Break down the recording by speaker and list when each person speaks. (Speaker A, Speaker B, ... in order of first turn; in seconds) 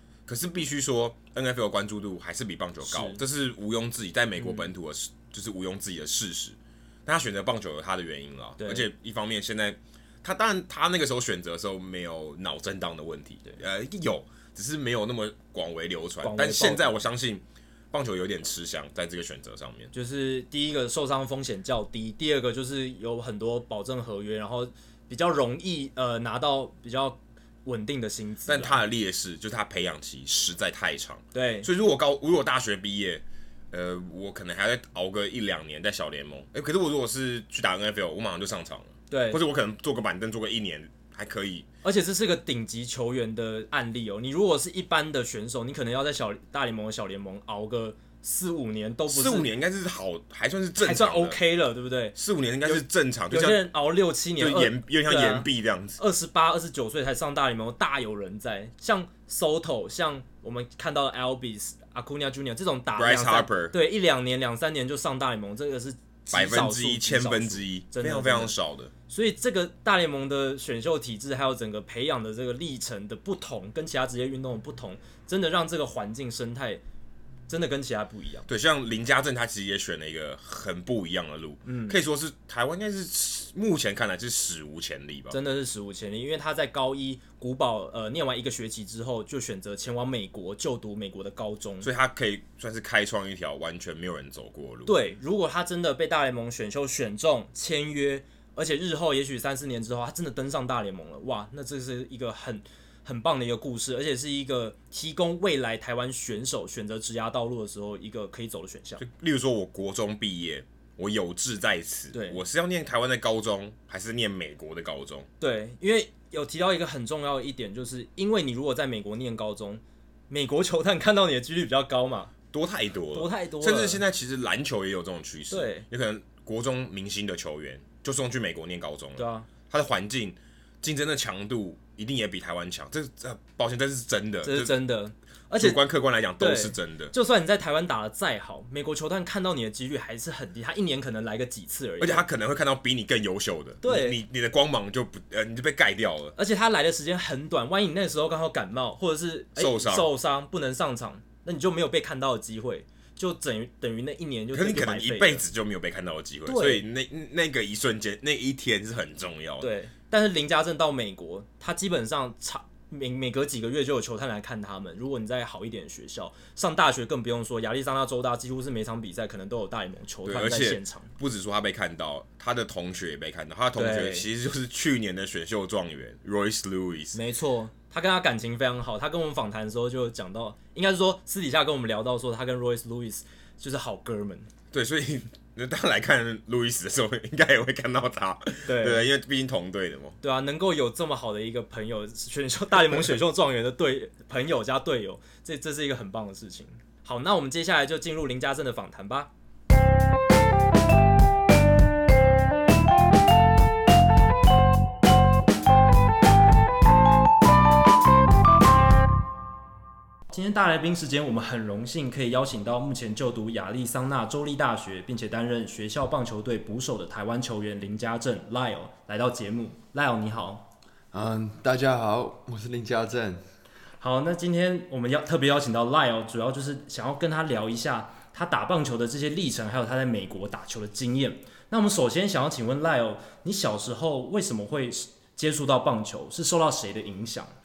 Speaker A: 0.2-19.9, 28.5-41.7, 49.1-51.4, 52.1-53.6, 54.4-56.0, 63.0-63.7, 66.3-68.9, 78.5-85.4, 91.8-94.9, 109.0-115.3, 122.5-134.7, 135.6-137.1, 142.0-146.3, 149.6-150.1, 154.5-159.7, 170.2-177.2, 184.7-190.2
Speaker B: 2.8-3.2, 4.4-4.7, 8.6-8.9, 16.2-17.0, 19.9-28.8, 31.3-31.7, 39.1-39.4, 41.8-49.5, 50.8-68.5, 69.1-76.8, 77.5-78.5, 81.6-82.0, 85.3-91.9, 94.8-109.0, 112.1-112.4, 115.4-122.3, 123.1-124.0, 125.5-125.8, 129.2-129.5, 134.4-135.8, 136.4-142.2, 143.8-144.2, 146.3-155.4, 156.4-156.8, 159.6-171.1, 173.8-174.2, 177.1-184.5, 188.6-189.1, 190.2-199.3, 210.3-220.7, 224.0-237.5
Speaker C: 221.1-223.4